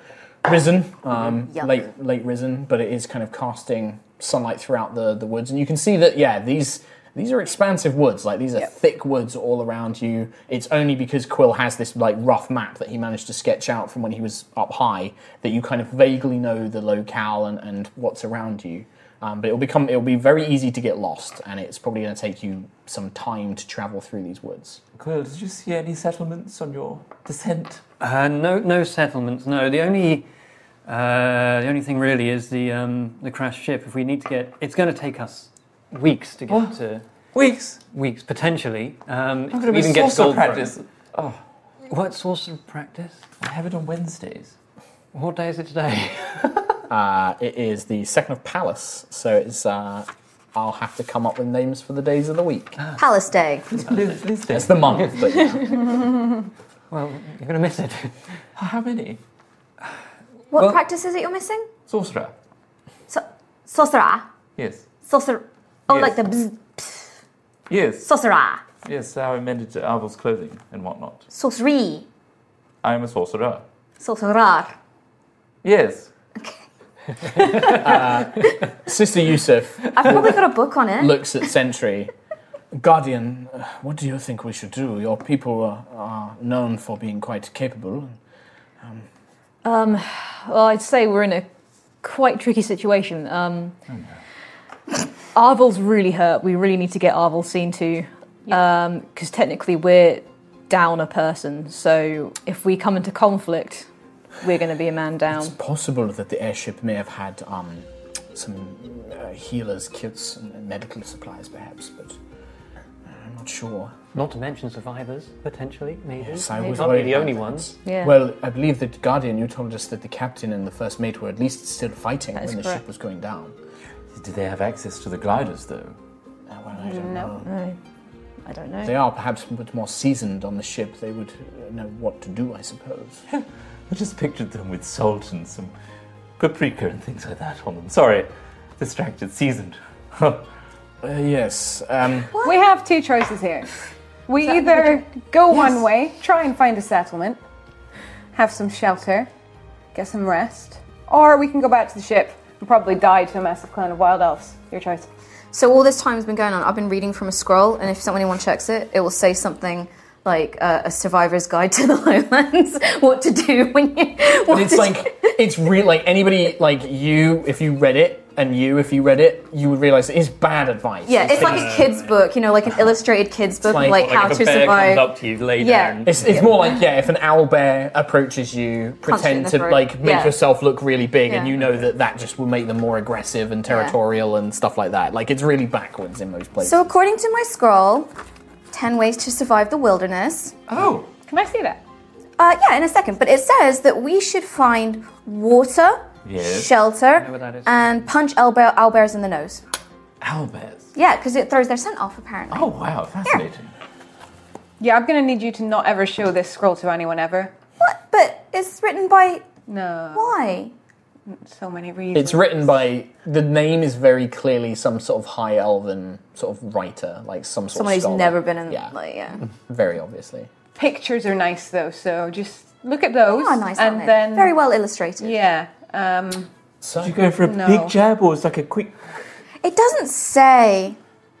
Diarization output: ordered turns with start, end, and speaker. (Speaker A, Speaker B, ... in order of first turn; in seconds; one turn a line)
Speaker A: 0.4-24.8
Speaker B: 1.5-1.8
Speaker C: 24.9-27.8
Speaker D: 28.0-30.2
Speaker D: 30.9-37.0
Speaker C: 36.5-36.7
Speaker C: 37.3-37.8
Speaker D: 37.9-40.7
Speaker C: 39.5-41.4
Speaker D: 41.9-43.2
Speaker C: 43.4-44.5
Speaker D: 45.1-46.8
Speaker A: 46.9-52.8
Speaker B: 53.0-53.7
Speaker C: 53.7-55.1
Speaker A: 54.5-56.0
Speaker D: 56.9-58.1
Speaker C: 58.6-59.2
Speaker B: 60.5-61.7
Speaker C: 61.9-62.3
Speaker B: 63.1-64.3
Speaker C: 64.6-64.9
Speaker B: 65.0-67.1
Speaker C: 65.9-66.2
Speaker C: 67.7-68.1
Speaker B: 68.0-68.6
Speaker C: 68.8-71.2
Speaker B: 71.3-72.1
Speaker C: 72.8-73.6
Speaker B: 74.0-74.7
Speaker C: 75.6-76.1
Speaker B: 77.2-78.0
Speaker A: 77.7-80.4
Speaker B: 79.9-81.2
Speaker A: 81.0-82.1
Speaker A: 82.7-88.2
Speaker E: 89.6-91.5
Speaker E: 92.0-93.7
Speaker C: 93.9-94.2
Speaker E: 95.3-103.9
Speaker E: 104.4-105.5
Speaker A: 105.3-112.2
Speaker A: 113.1-113.9
Speaker D: 114.1-117.7
Speaker A: 116.2-123.5
Speaker E: 117.8-118.2
Speaker E: 122.3-122.8
Speaker C: 124.1-126.0
Speaker A: 126.5-127.5
Speaker F: 126.8-127.4
Speaker E: 127.4-127.8
Speaker E: 128.4-129.0
Speaker A: 128.8-133.2
Speaker C: 133.3-135.7
Speaker C: 136.4-140.5
Speaker A: 141.0-142.3
Speaker B: 142.3-142.7
Speaker F: 142.4-143.7
Speaker F: 144.3-147.4
Speaker B: 144.6-144.8
Speaker F: 148.3-149.3
Speaker F: 149.9-155.1
Speaker B: 155.5-165.3
Speaker A: 164.5-171.9
Speaker B: 171.1-176.8
Speaker D: 171.3-172.1
Speaker A: 173.7-174.2
Speaker D: 173.7-176.2
Speaker A: 176.0-186.9
Speaker B: 179.1-180.4
Speaker B: 181.3-181.5
Speaker B: 183.7-184.0
Speaker B: 186.6-188.1
Speaker B: 188.7-190.6
Speaker C: 190.7-191.1
Speaker F: 191.3-191.8
Speaker B: 192.4-199.6
Speaker C: 196.2-196.7
Speaker D: 197.2-197.8
Speaker C: 200.2-200.9
Speaker B: 200.9-203.4
Speaker C: 202.5-203.7
Speaker F: 204.8-207.5
Speaker B: 207.8-209.5
Speaker F: 209.7-210.4
Speaker B: 210.1-210.7
Speaker F: 211.3-212.7
Speaker A: 212.1-218.9
Speaker B: 217.7-219.4
Speaker A: 219.7-220.5
Speaker F: 220.8-224.6
Speaker B: 223.2-225.4
Speaker F: 225.2-226.5
Speaker A: 226.8-227.2
Speaker C: 227.0-229.0
Speaker F: 227.4-227.9
Speaker B: 229.6-231.0